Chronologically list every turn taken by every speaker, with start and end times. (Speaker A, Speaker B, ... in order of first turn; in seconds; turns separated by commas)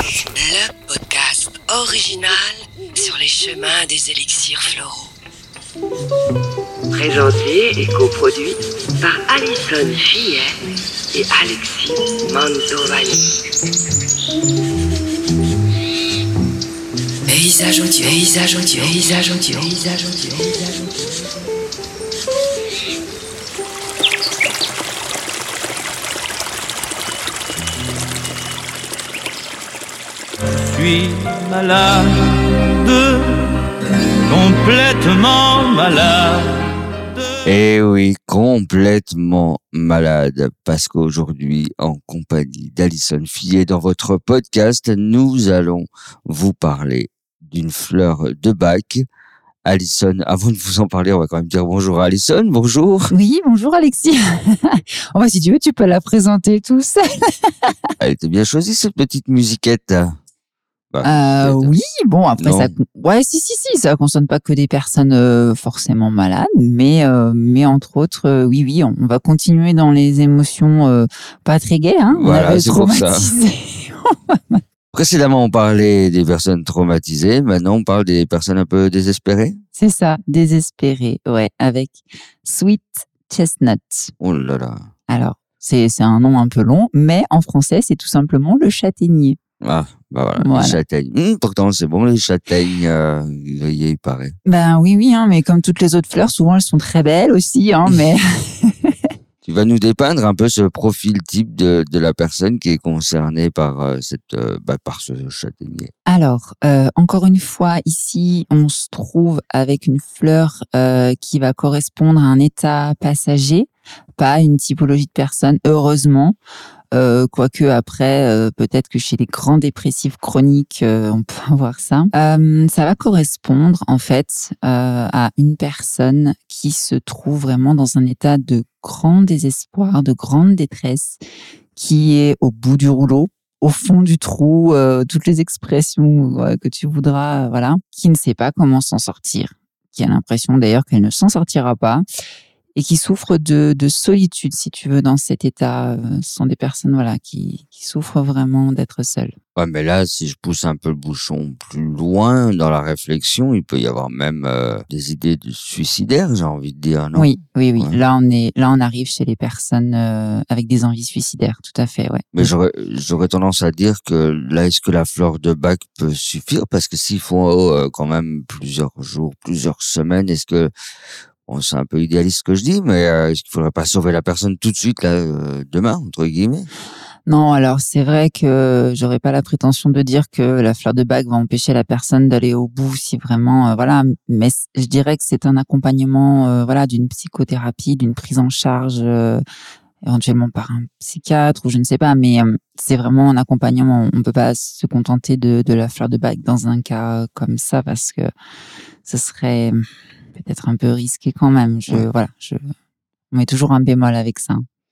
Speaker A: 0.3-5.1, Speaker A: 6.9-10.6, Speaker A: 11.1-13.2, Speaker A: 17.2-20.9, Speaker B: 30.6-33.6, Speaker B: 34.3-36.6, Speaker C: 37.4-49.0, Speaker C: 49.6-53.1, Speaker D: 53.1-57.7, Speaker C: 58.0-60.1, Speaker C: 60.9-61.7, Speaker D: 61.0-74.6, Speaker C: 62.4-62.8, Speaker C: 72.1-73.3, Speaker C: 74.9-79.6, Speaker D: 79.7-84.1, Speaker C: 84.2-84.9, Speaker D: 85.1-89.4, Speaker C: 89.6-94.3, Speaker D: 90.4-90.8, Speaker D: 94.4-99.0, Speaker C: 99.4-105.9, Speaker D: 106.0-116.4, Speaker D: 116.9-131.2, Speaker D: 131.7-142.0, Speaker D: 142.7-149.3, Speaker C: 149.6-158.0, Speaker D: 157.1-162.5, Speaker C: 162.3-170.7, Speaker C: 171.5-176.7, Speaker D: 177.2-189.4, Speaker D: 190.0-198.3, Speaker D: 199.0-199.8, Speaker D: 200.3-202.7, Speaker D: 203.3-204.6